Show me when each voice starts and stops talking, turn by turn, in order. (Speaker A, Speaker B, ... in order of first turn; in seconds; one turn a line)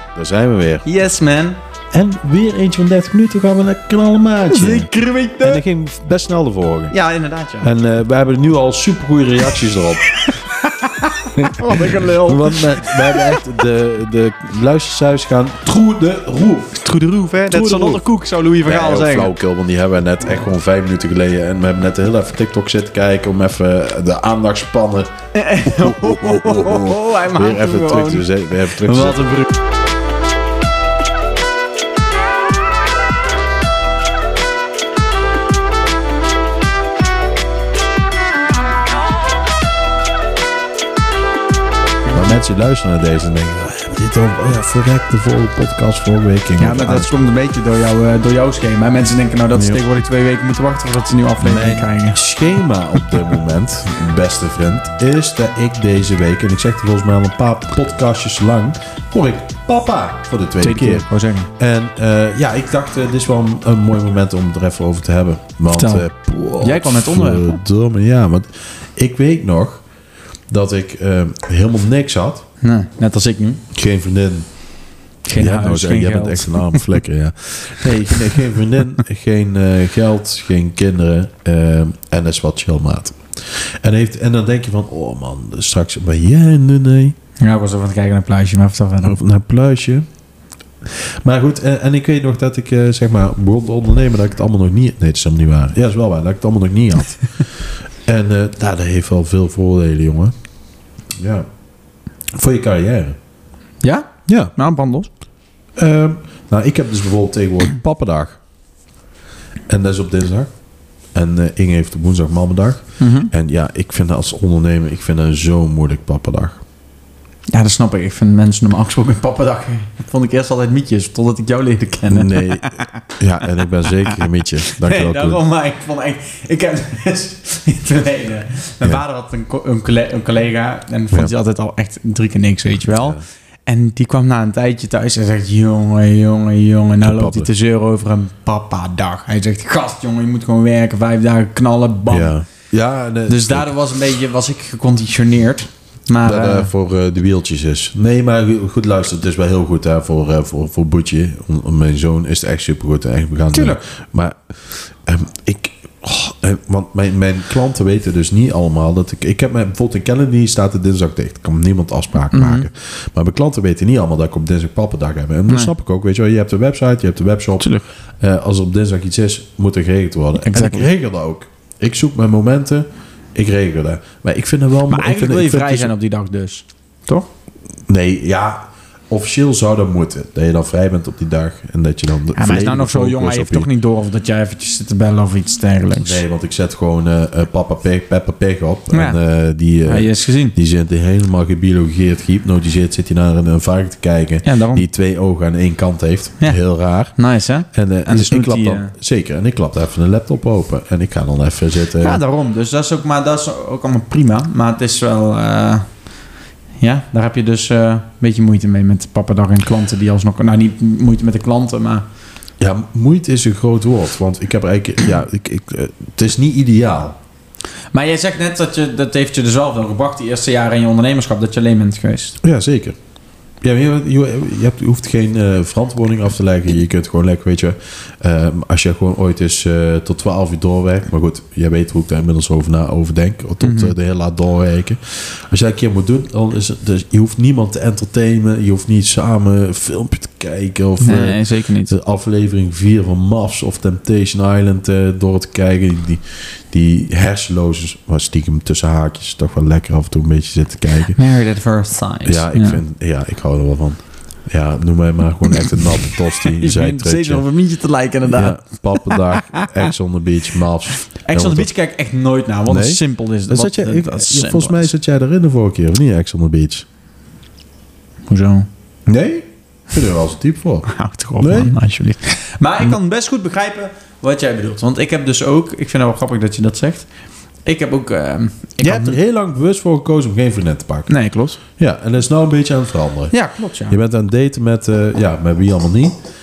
Speaker A: 0.1-0.8
Speaker B: 0.8-1.6
Speaker A: 1.9-4.9
Speaker B: 4.5-5.6
Speaker A: 5.4-6.9
Speaker B: 6.9-7.7
Speaker A: 7.6-10.2
Speaker B: 10.1-13.3
Speaker A: 11.3-18.0
Speaker B: 16.9-19.3
Speaker A: 18.6-25.1
Speaker B: 25.3-29.4
Speaker A: 25.6-29.4
Speaker B: 42.1-42.3
Speaker A: 42.1-47.1
Speaker B: 46.6-52.2
Speaker A: 49.5-49.8
Speaker A: 51.4-69.8
Speaker B: 60.6-61.5
Speaker B: 65.7-66.1
Speaker B: 66.6-67.6
Speaker A: 70.5-72.4
Speaker B: 72.6-73.6
Speaker A: 73.7-74.5
Speaker B: 75.2-77.0
Speaker A: 75.3-87.2
Speaker B: 78.1-78.4
Speaker B: 87.4-89.2
Speaker A: 89.0-90.0
Speaker A: 90.9-100.3
Speaker A: 101.2-101.5
Speaker A: 102.3-103.2
Speaker B: 103.8-105.1
Speaker A: 104.3-104.5
Speaker A: 105.8-108.4
Speaker A: 109.7-110.5
Speaker A: 111.1-116.6
Speaker B: 113.0-113.3
Speaker B: 117.5-123.1
Speaker A: 122.1-125.4
Speaker B: 123.9-124.2
Speaker B: 124.8-142.3
Speaker A: 132.8-133.2
Speaker A: 137.0-137.5
Speaker A: 142.1-143.8
Speaker B: 143.3-146.7
Speaker A: 146.2-175.9
Speaker B: 153.5-153.8
Speaker B: 162.3-162.7
Speaker B: 167.6-167.9
Speaker B: 170.4-170.9
Speaker B: 174.9-177.3
Speaker A: 177.9-183.7
Speaker B: 182.3-186.2
Speaker A: 186.0-197.1
Speaker B: 188.9-189.2
Speaker B: 189.8-190.5
Speaker B: 194.4-194.9
Speaker B: 197.1-198.9
Speaker A: 197.7-202.2
Speaker B: 202.0-205.9
Speaker B: 206.8-212.0
Speaker A: 212.6-217.2
Speaker B: 217.9-222.4
Speaker A: 222.4-222.9
Speaker A: 223.6-251.2
Speaker B: 233.6-233.9
Speaker B: 241.0-241.9
Speaker B: 251.1-252.8
Speaker A: 252.2-257.4
Speaker B: 255.5-259.7
Speaker A: 258.3-261.7
Speaker B: 261.1-264.9
Speaker A: 262.7-266.9
Speaker B: 268.3-268.7
Speaker A: 269.1-270.9
Speaker B: 270.9-277.1
Speaker A: 271.4-271.7
Speaker B: 277.6-279.2
Speaker A: 278.8-281.1
Speaker B: 281.1-281.6
Speaker A: 281.8-283.3
Speaker B: 283.3-284.0
Speaker A: 283.9-286.2